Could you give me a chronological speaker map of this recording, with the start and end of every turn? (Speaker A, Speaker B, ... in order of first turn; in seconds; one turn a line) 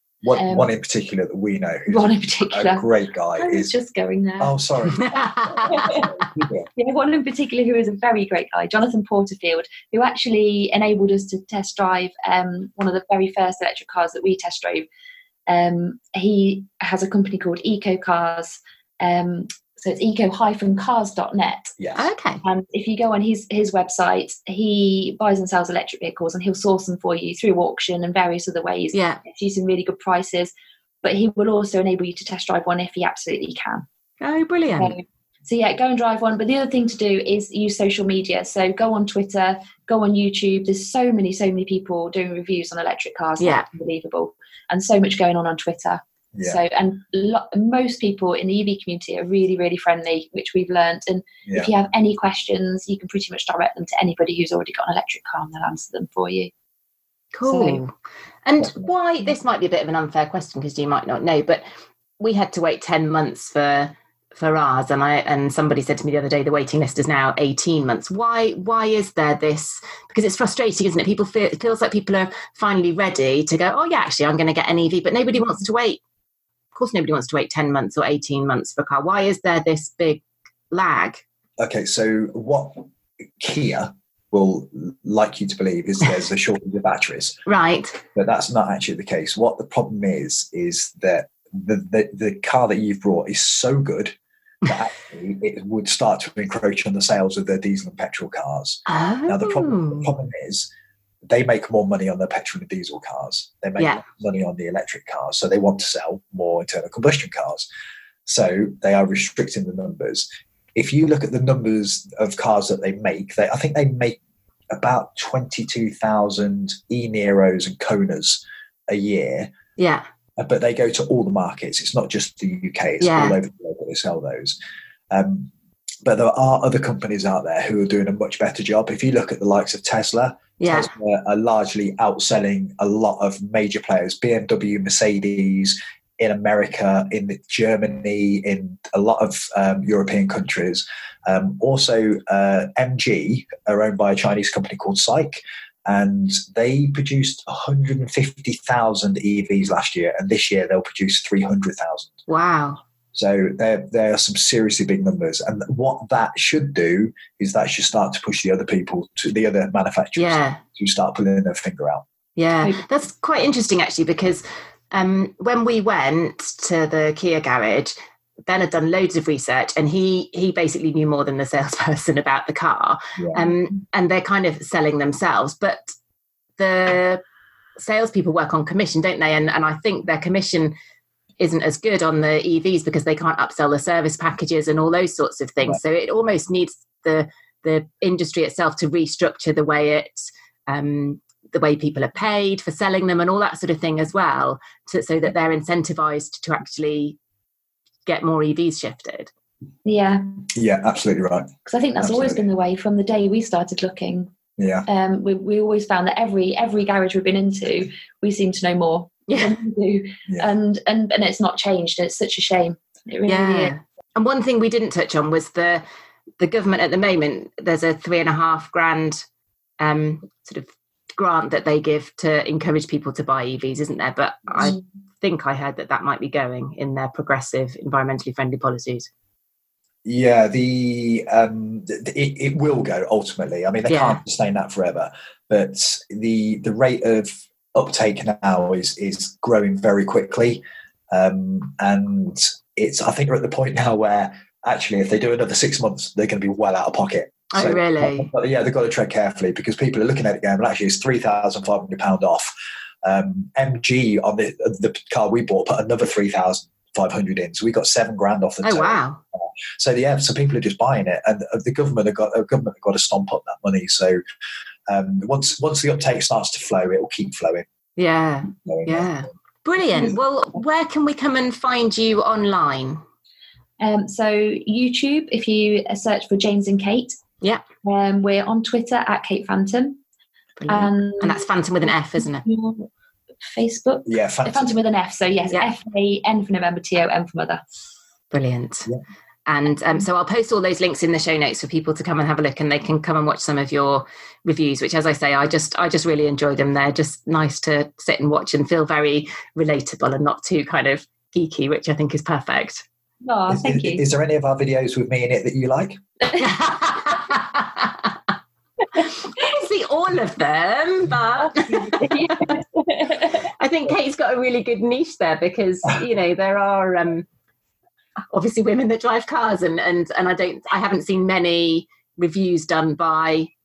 Speaker A: 0.2-3.7
Speaker B: 0.3-0.7
Speaker B: 1.9-2.9
Speaker B: 3.4-4.6
Speaker A: 4.4-6.7
Speaker C: 4.9-6.0
Speaker B: 5.7-6.1
Speaker B: 6.8-14.8
Speaker B: 15.5-21.8
Speaker A: 21.8-22.1
Speaker C: 21.9-22.4
Speaker B: 22.4-30.5
Speaker C: 28.9-29.2
Speaker B: 31.0-33.9
Speaker C: 34.2-34.9
Speaker B: 34.8-56.5
Speaker C: 43.4-43.6
Speaker A: 46.3-46.6
Speaker A: 51.5-51.7
Speaker C: 57.3-57.9
Speaker B: 57.4-57.8
Speaker C: 58.5-61.6
Speaker A: 58.6-58.9
Speaker C: 62.2-76.0
Speaker C: 76.7-81.2
Speaker A: 81.6-82.9
Speaker A: 83.4-87.4
Speaker C: 87.5-88.0
Speaker A: 88.1-100.7
Speaker C: 98.9-100.1
Speaker A: 101.3-107.6
Speaker C: 103.8-104.0
Speaker A: 108.2-114.2
Speaker A: 114.7-119.5
Speaker C: 119.8-120.0
Speaker A: 120.4-124.5
Speaker C: 123.0-123.4
Speaker A: 125.1-125.5
Speaker A: 126.0-152.2
Speaker C: 130.6-130.9
Speaker C: 152.3-152.8
Speaker A: 153.1-162.0
Speaker C: 160.2-160.6
Speaker C: 162.4-167.9
Speaker C: 168.4-175.9
Speaker A: 173.2-173.5
Speaker C: 176.6-177.2
Speaker C: 177.8-180.7
Speaker C: 181.4-197.2
Speaker C: 198.1-199.3
Speaker B: 199.8-200.4
Speaker A: 200.5-202.4
Speaker B: 201.6-204.3
Speaker A: 204.6-204.8
Speaker B: 204.8-213.7
Speaker C: 209.3-209.6
Speaker C: 213.3-215.8
Speaker C: 216.4-219.2
Speaker C: 219.8-229.1
Speaker A: 230.0-252.5
Speaker C: 233.9-234.2
Speaker C: 247.5-248.3
Speaker A: 253.0-264.2
Speaker C: 258.6-259.2
Speaker A: 264.9-267.6
Speaker C: 268.0-273.0
Speaker A: 268.6-269.1
Speaker B: 273.8-277.1
Speaker B: 277.8-280.0
Speaker C: 280.6-282.4
Speaker B: 280.7-282.9
Speaker B: 283.4-287.6
Speaker A: 284.1-284.8
Speaker C: 288.3-288.9
Speaker C: 289.4-302.8
Speaker B: 303.2-304.0
Speaker A: 303.5-306.0
Speaker B: 306.2-306.5
Speaker C: 306.4-308.1
Speaker B: 308.9-309.5
Speaker C: 308.9-312.3
Speaker B: 311.5-313.5
Speaker C: 313.6-317.2
Speaker C: 318.3-323.5